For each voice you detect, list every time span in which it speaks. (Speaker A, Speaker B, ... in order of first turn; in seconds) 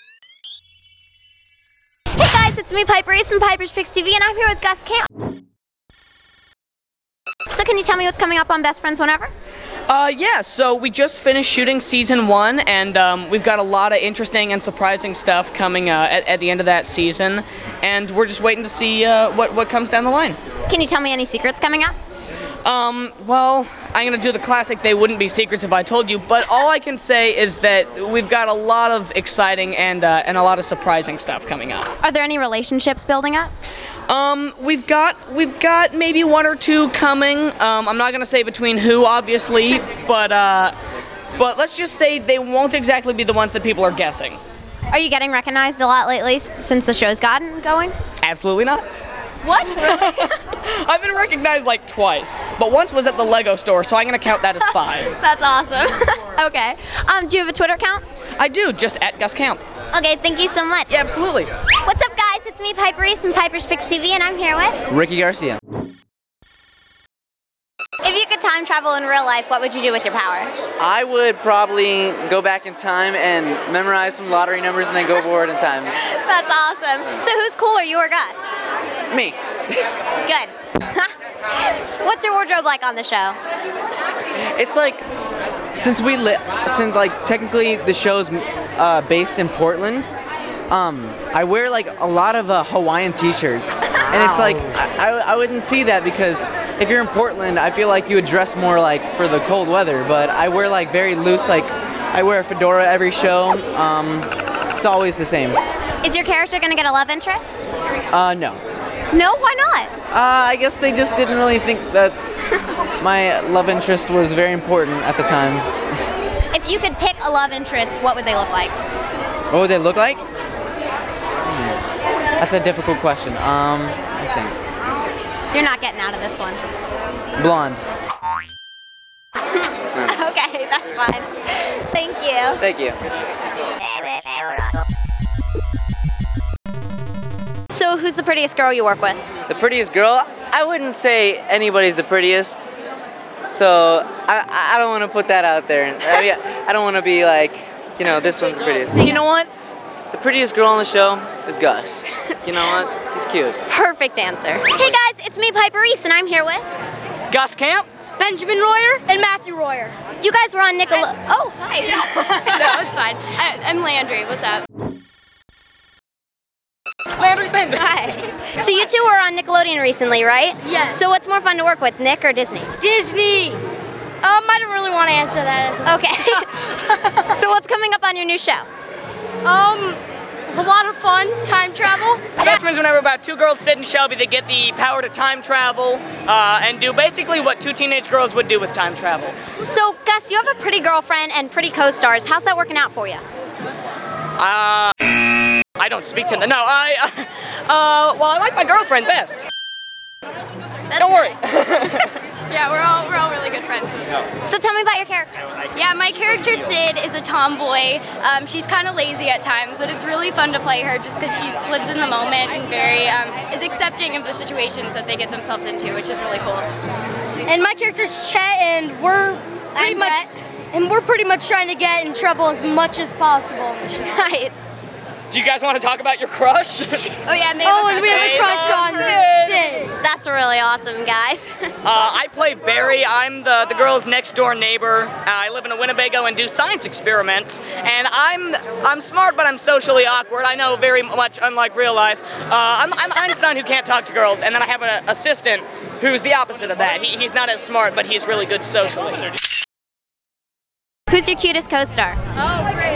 Speaker A: 2.1-5.1, 7.5-9.3, 20.7-21.9, 32.0-33.5, 44.9-48.0, 49.4-50.4, 55.2-58.0, 59.9-60.9, 61.8-64.8, 68.0-70.5, 76.0-78.5, 80.2-81.1, 81.7-83.4, 106.0-107.6, 109.1-109.9, 116.5-118.8, 125.5-126.6, 129.6-132.6, 137.7-139.2, 148.9-149.2, 153.7-156.7, 160.2-162.6, 167.7-172.7, 175.8-178.7, 189.6-193.2, 204.4-205.3, 219.8-220.3, 224.1-224.6, 230.0-231.5, 251.1-252.2
Speaker B: 9.9-20.4, 22.6-31.9, 34.1-40.7, 41.4-44.4, 48.2-48.8, 49.7-55.2, 58.4-59.6, 60.9-61.5, 157.3-157.9, 167.1-167.8, 182.4-189.4, 194.4-195.0, 195.8-199.4, 200.9-202.2, 225.3-227.3, 228.0-229.8, 231.8-249.2
Speaker C: 64.9-65.6, 70.8-76.0, 79.1-79.4, 84.3-85.0, 85.8-90.1, 90.7-105.6, 108.1-108.6, 110.1-112.2, 113.0-115.7, 119.5-120.2, 121.4-121.8, 122.4-124.5, 127.4-127.8, 129.9-130.2, 132.6-133.0, 139.5-142.7, 143.4-149.5, 150.1-153.6
Speaker D: 158.2-160.0, 170.6-171.0, 172.8-173.6, 174.2-175.9, 179.4-182.5, 217.5-224.2, 227.6-229.9
Speaker E: 161.8-164.6, 202.5-204.2, 205.7-216.7, 227.2-228.8